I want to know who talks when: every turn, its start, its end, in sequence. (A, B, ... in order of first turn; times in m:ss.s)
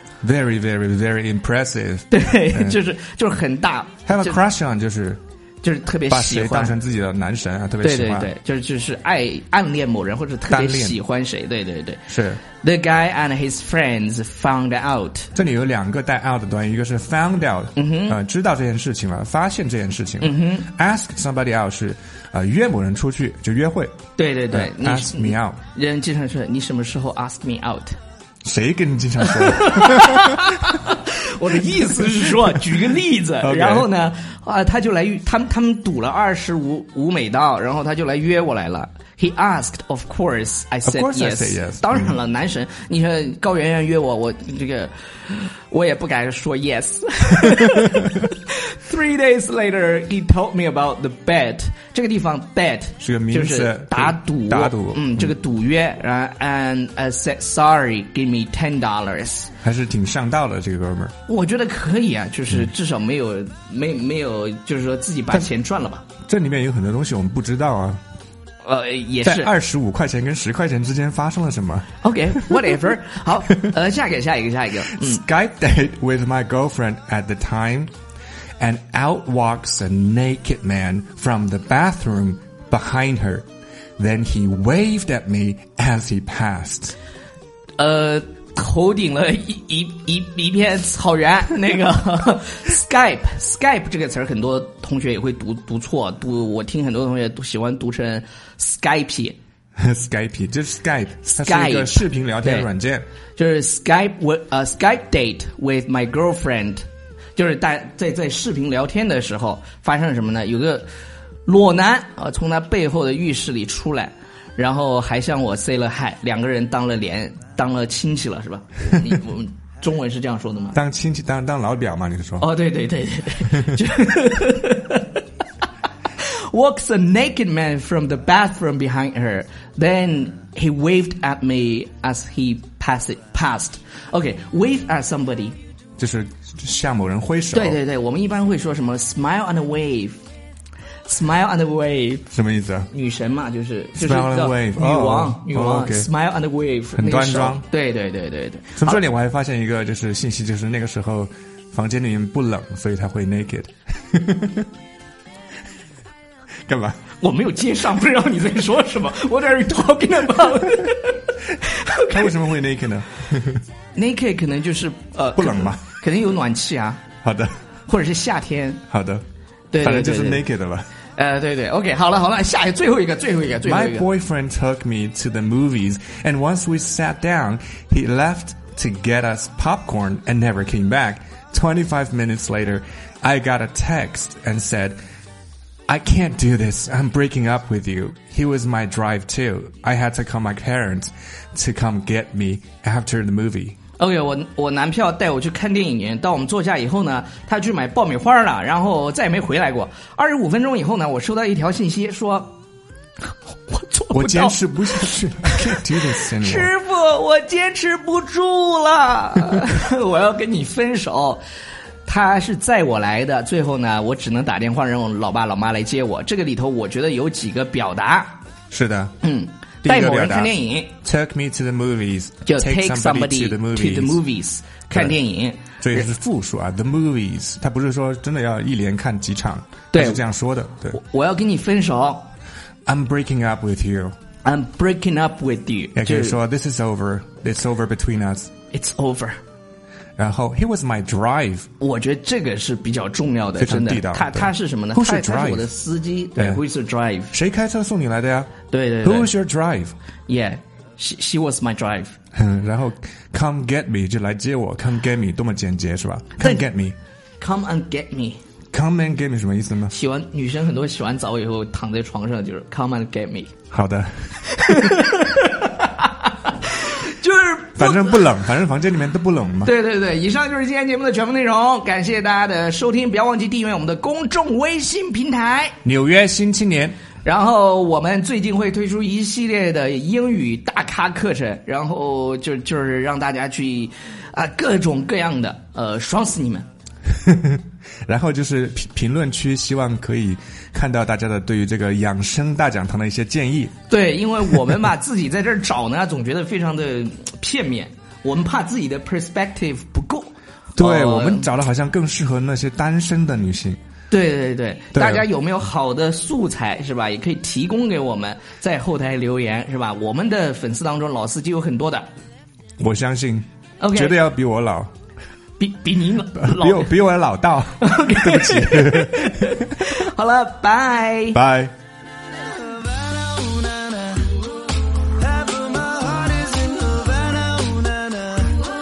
0:00.2-0:02.8 A
0:02.1-0:04.4 B
0:04.1-0:05.2 A
0:05.6-0:06.8 B
0:06.1-0:08.3 A
0:07.8-0:12.1 B
0:10.5-0:11.0 A
0:12.1-0:12.4 A
0:12.6-0:15.3 B
0:15.4-0:23.9 A
0:17.8-0:18.2 B
0:20.2-0:20.7 B
0:24.2-0:28.0 B
0:24.5-0:25.6 A
0:28.4-0:30.4 A
0:29.2-0:59.5 B
0:33.4-0:33.9 A
0:40.8-0:42.2 A
0:53.0-0:55.3 A
0:59.6-1:01.1 A
1:01.3-1:06.1 B
1:06.3-1:08.0 A
1:08.6-1:09.5 B
1:09.2-1:11.9 A
1:12.0-1:15.2 B
1:15.0-1:17.9 A
1:18.6-1:23.5 A
1:24.0-1:27.0 A
1:27.8-1:39.4 B
1:39.8-1:43.1 A
1:41.3-1:42.7 B
1:43.4-1:46.8 B
1:47.4-1:50.9 B
1:51.5-2:00.8 B
2:00.7-2:02.5 A
2:02.4-2:05.2 B
2:06.2-2:15.6 B
2:16.0-2:17.8 A
2:17.5-2:20.2 B
2:21.1-2:22.3 B
2:22.3-2:22.9 A
2:22.9-2:29.0 B
2:24.0-2:26.1 A
2:27.0-2:27.6 A
2:28.8-2:34.7 A
2:36.7-2:37.0 A
2:37.2-2:42.3 B
2:42.1-2:43.6 A
2:44.0-2:47.0 B
2:45.4-2:45.8 A
2:47.2-2:47.5 A
2:47.9-2:48.8 B
2:48.9-2:49.2 A
2:49.7-2:50.4 B
2:49.8-2:50.9 A
2:51.2-2:54.1 B
2:53.6-3:05.0 A
3:05.9-3:13.8 A
3:14.0-3:22.5 B
3:23.5-3:25.8 B
3:24.1-3:26.7 A
3:26.4-3:31.4 B
3:32.1-3:38.4 B
3:38.7-3:39.2 A
3:39.2-3:40.9 B
3:39.8-3:40.5 A
3:41.0-3:44.2 A
3:42.5-3:46.1 B
3:44.9-3:45.2 A
3:45.8-3:51.0 A
3:49.9-3:50.2 B
3:50.9-3:52.3 B
3:52.9-3:54.1 A
3:54.4-3:56.4 B
3:56.0-3:58.5 A
3:58.7-3:59.4 B
4:00.2-4:01.7 A
4:01.8-4:07.4 B
4:03.6-4:05.7 A
4:06.4-4:06.6 A
4:07.3-4:10.0 A
4:08.7-4:09.3 B
4:10.3-4:12.1 B
4:12.3-4:17.0 A
4:17.4-4:18.4 B
4:18.7-4:19.9 A
4:19.9-4:23.5 B
4:23.7-4:24.7 A
4:24.5-4:28.3 B
4:27.8-4:29.7 A
4:29.6-4:35.8 B
4:35.8-4:37.0 A
4:37.2-4:46.7 B
4:47.2-4:53.7 A
4:53.9-5:01.5 B
5:00.8-5:03.8 A
5:04.1-5:12.1 B
5:04.9-5:05.2 A
5:12.8-5:14.9 A
5:13.8-5:14.2 B
5:15.6-5:16.9 B
5:16.4-5:19.9 A
5:17.8-5:21.4 B
5:21.3-5:21.7 A
5:23.3-5:24.2 B
5:25.4-5:28.4 B